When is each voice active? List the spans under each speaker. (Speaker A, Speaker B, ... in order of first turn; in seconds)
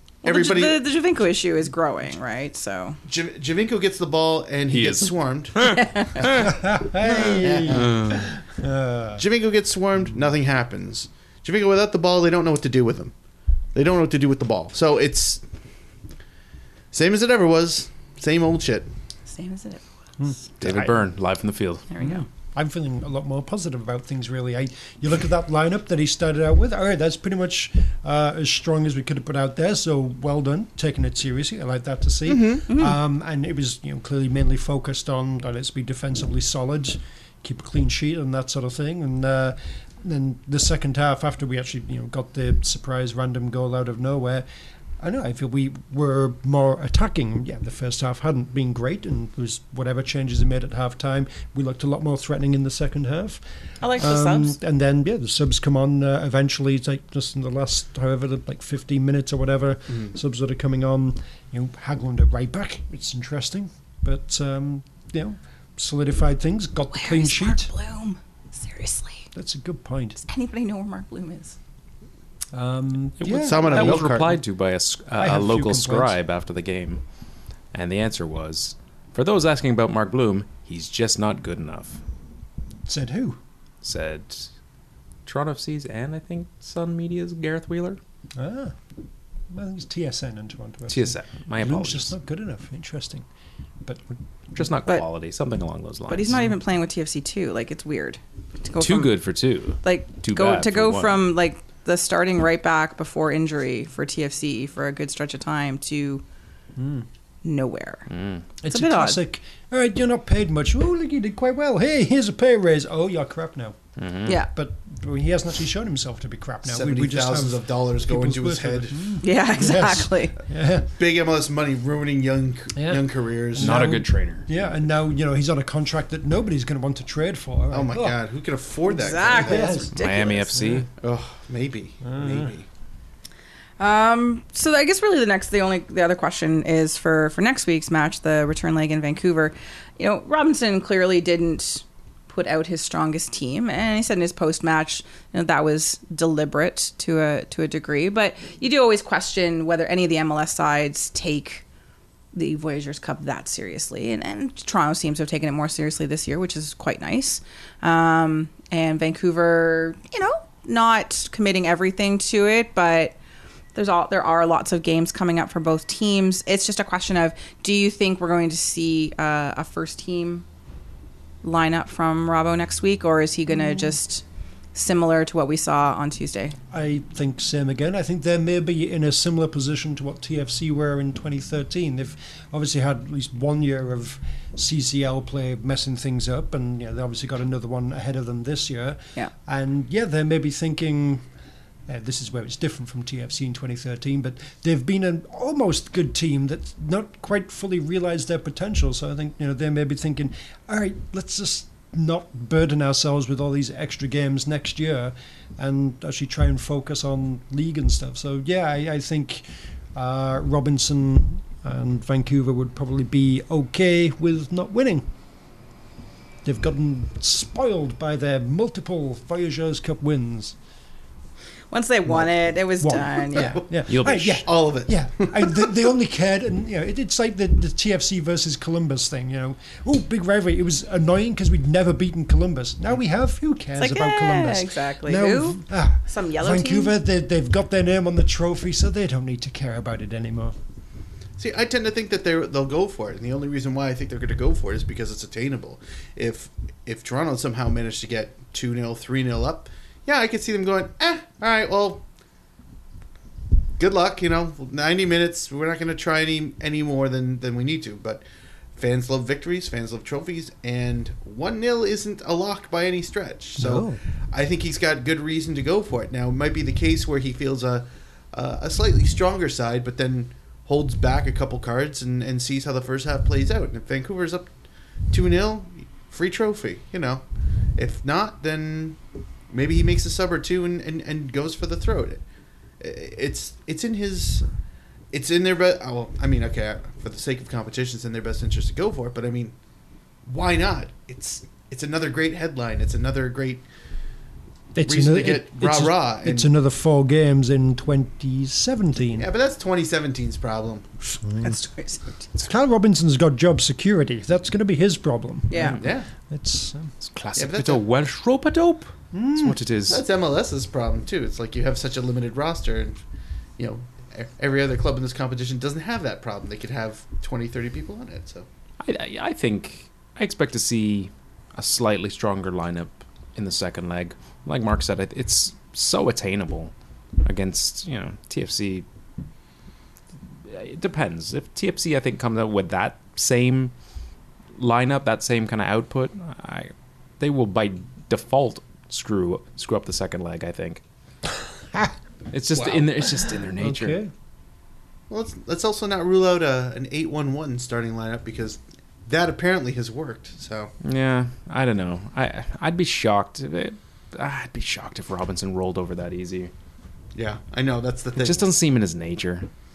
Speaker A: 0.2-0.8, 3.1-6.5, 7.0-8.2, 9.2-13.1, 13.8-15.4, 16.9-18.9, 32.3-32.8, 73.4-74.4, 116.7-119.2, 121.0-124.0, 127.7-129.8, 131.0-132.7, 223.4-223.6, 224.4-225.7, 241.4-252.0, 253.8-258.2, 258.8-274.5, 275.1-277.2, 277.8-279.0, 279.5-282.2, 282.8-284.4, 285.1-289.5, 290.3-293.6, 294.8-296.5, 299.1-300.9, 305.7-306.1, 307.4-307.8, 309.9-313.0, 313.6-318.5, 342.6-342.9, 345.1-350.7, 357.1-358.5
Speaker B: 0.2-3.0, 5.8-6.2, 19.3-19.9, 21.9-22.2, 53.8-54.6, 66.9-69.3, 70.2-71.6, 96.1-99.2, 99.8-106.2, 107.4-108.1, 108.7-109.2, 119.2-120.3, 128.9-130.7, 133.8-151.6, 152.3-163.2, 163.8-170.4, 171.4-176.6, 221.7-223.6, 233.8-236.9, 301.4-302.5, 305.5-305.8
Speaker C: 4.7-6.5, 7.7-8.2, 20.6-21.9, 73.2-77.0, 77.7-82.0, 83.8-84.5, 85.3-88.0, 90.9-92.1, 94.6-96.5, 98.8-101.2, 108.1-108.5, 114.0-114.4, 123.6-124.5, 129.9-130.9, 223.9-224.5, 307.0-310.0, 318.8-326.7, 327.2-328.9, 330.5-333.7, 334.6-340.8, 342.3-344.0, 350.8-356.5, 358.2-359.5
Speaker D: 6.4-9.2, 20.2-21.0, 22.0-44.5, 45.0-53.4, 53.9-67.7, 69.3-70.2, 72.5-74.2, 75.2-76.2, 82.9-83.4, 88.4-88.8, 89.5-93.2, 93.8-94.6, 106.8-107.1, 108.6-113.8, 114.3-120.9, 122.8-128.2, 129.3-129.9, 130.6-130.8, 132.0-132.5, 176.7-191.2, 191.9-215.1, 216.4-220.6, 222.1-240.6, 263.6-264.0, 294.7-299.3, 301.2-301.5, 302.5-305.8, 306.3-306.9, 309.1-309.6, 343.6-344.1